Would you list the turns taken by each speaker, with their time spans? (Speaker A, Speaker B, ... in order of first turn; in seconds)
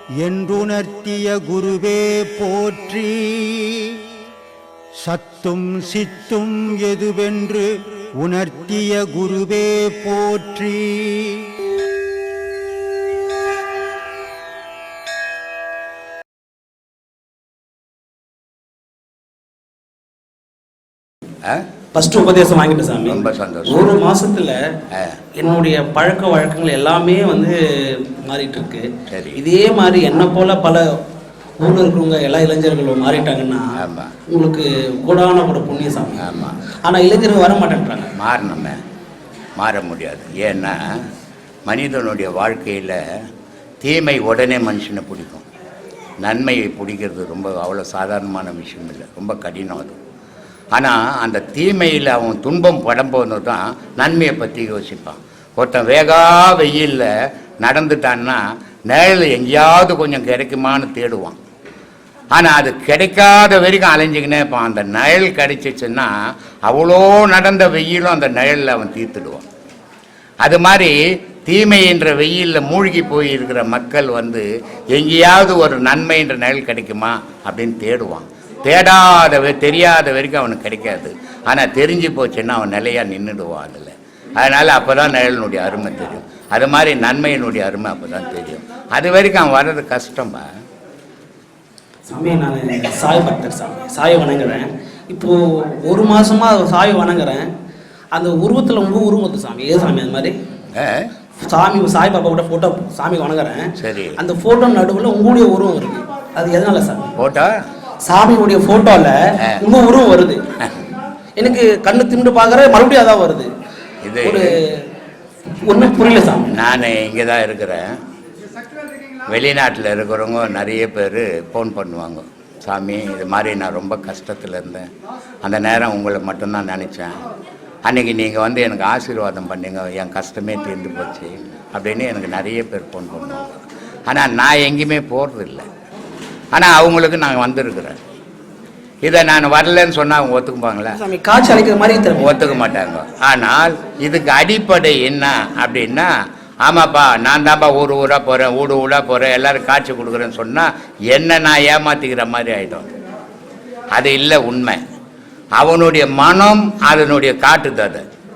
Speaker A: 0.2-3.9, 5.0-7.7, 8.2-11.4
Speaker B: 21.9-24.6, 25.4-30.8, 31.6-33.7, 34.3-36.2, 36.8-38.1, 92.1-97.5, 98.1-100.4, 101.4-107.1, 108.0-110.4, 111.4-113.5, 114.2-114.8, 115.6-116.5, 141.0-142.5
Speaker C: 23.0-23.9, 29.1-29.4, 33.8-34.1, 36.2-36.6, 38.2-38.8, 39.6-40.8, 41.7-43.0, 43.8-45.5, 46.2-50.0, 50.7-57.1, 57.6-61.4, 62.3-66.1, 66.7-69.5, 70.4-70.9, 71.5-90.5, 100.8-101.1, 103.8-104.2, 107.2-107.5, 114.0-114.4, 116.6-117.9, 119.3-124.9, 125.4-127.2, 127.8-135.7, 136.6-138.0, 139.1-141.0, 142.2-146.1, 146.7-152.9, 153.9-154.8, 155.6-158.0